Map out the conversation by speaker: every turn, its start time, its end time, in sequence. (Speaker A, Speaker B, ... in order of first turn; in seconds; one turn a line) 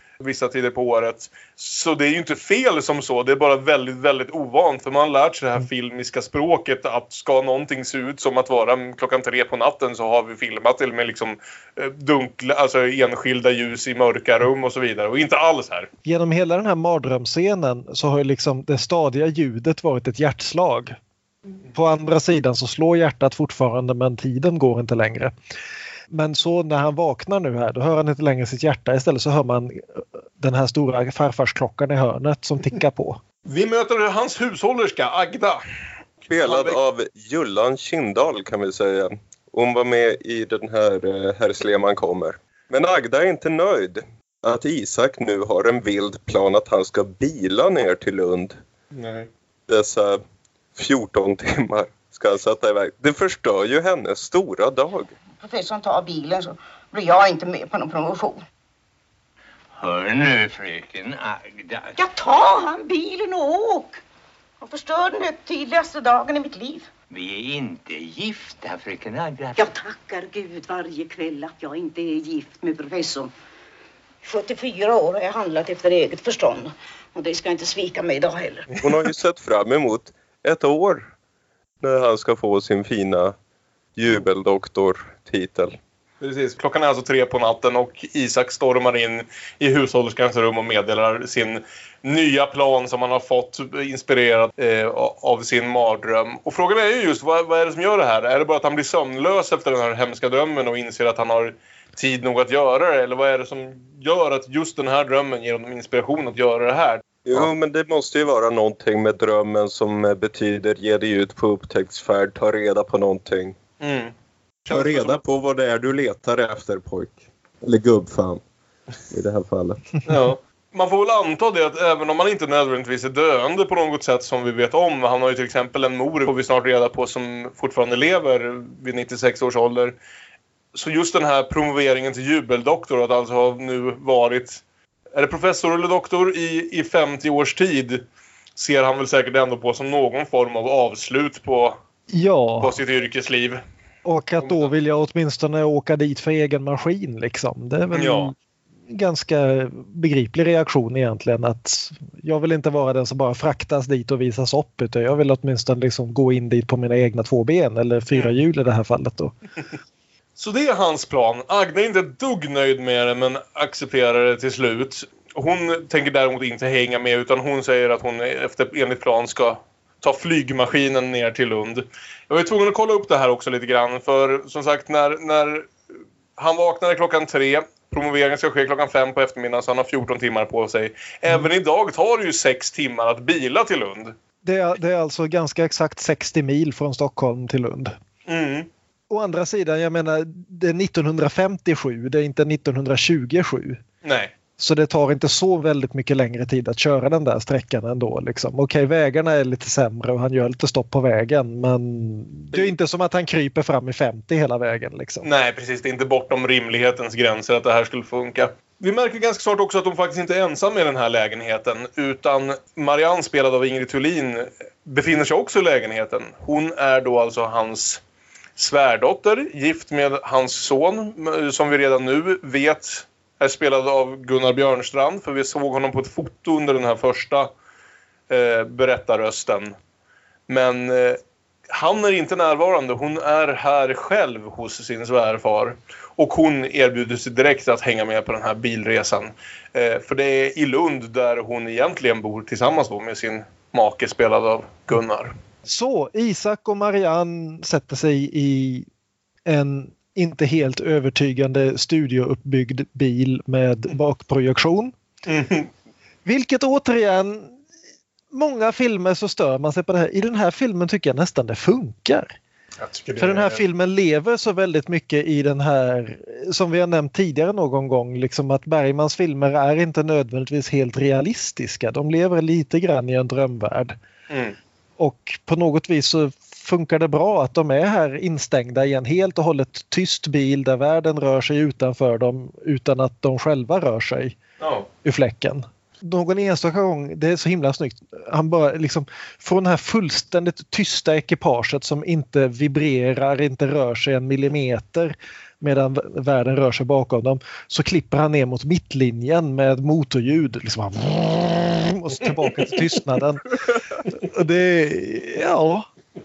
Speaker A: 0.2-15.9
Speaker B: 16.1-20.9
Speaker B: 21.7-25.3
Speaker B: 26.1-33.2
Speaker A: 33.5-35.6
Speaker C: 36.3-48.6
Speaker A: 36.4-36.8
Speaker A: 48.9-49.3
Speaker C: 49.7-50.2
Speaker C: 50.7-55.1
Speaker D: 55.4-58.4
Speaker E: 59.8-61.9
Speaker D: 62.0-64.0
Speaker D: 64.6-66.9
Speaker E: 67.1-69.6
Speaker D: 69.6-73.3
Speaker D: 74.2-78.7
Speaker C: 78.8-81.1
Speaker C: 81.8-83.4
Speaker C: 84.0-85.8
Speaker A: 86.2-107.5
Speaker C: 107.2-113.6
Speaker A: 113.8-114.1
Speaker A: 114.7-115.2
Speaker C: 114.7-118.4
Speaker C: 119.1-119.9
Speaker A: 120.1-129.9
Speaker A: 130.7-134.6
Speaker A: 135.1-138.0
Speaker A: 138.6-141.8
Speaker B: 142.1-142.7
Speaker A: 142.6-143.6
Speaker B: 144.1-148.3
Speaker A: 144.4-144.7
Speaker A: 147.9-148.3
Speaker B: 148.9-159.3
Speaker A: 160.4-175.7
Speaker A: 176.4-184.1
Speaker B: 184.4-187.9
Speaker A: 188.3-188.7
Speaker B: 189.1-193.8
Speaker A: 194.0-194.3
Speaker B: 194.6-205.2
Speaker A: 205.2-218.0
Speaker A: 218.6-227.5
Speaker A: 228.3-229.7
Speaker A: 230.5-231.2
Speaker A: 231.7-245.4
Speaker B: 245.7-248.9
Speaker B: 249.4-254.9
Speaker A: 255.2-255.7
Speaker B: 256.2-257.6
Speaker B: 258.3-262.4
Speaker A: 262.8-263.6
Speaker B: 263.2-274.0
Speaker A: 274.3-274.6
Speaker B: 275.0-284.4
Speaker A: 284.6-284.9
Speaker B: 285.0-303.5
Speaker A: 302.4-302.8
Speaker B: 304.1-305.9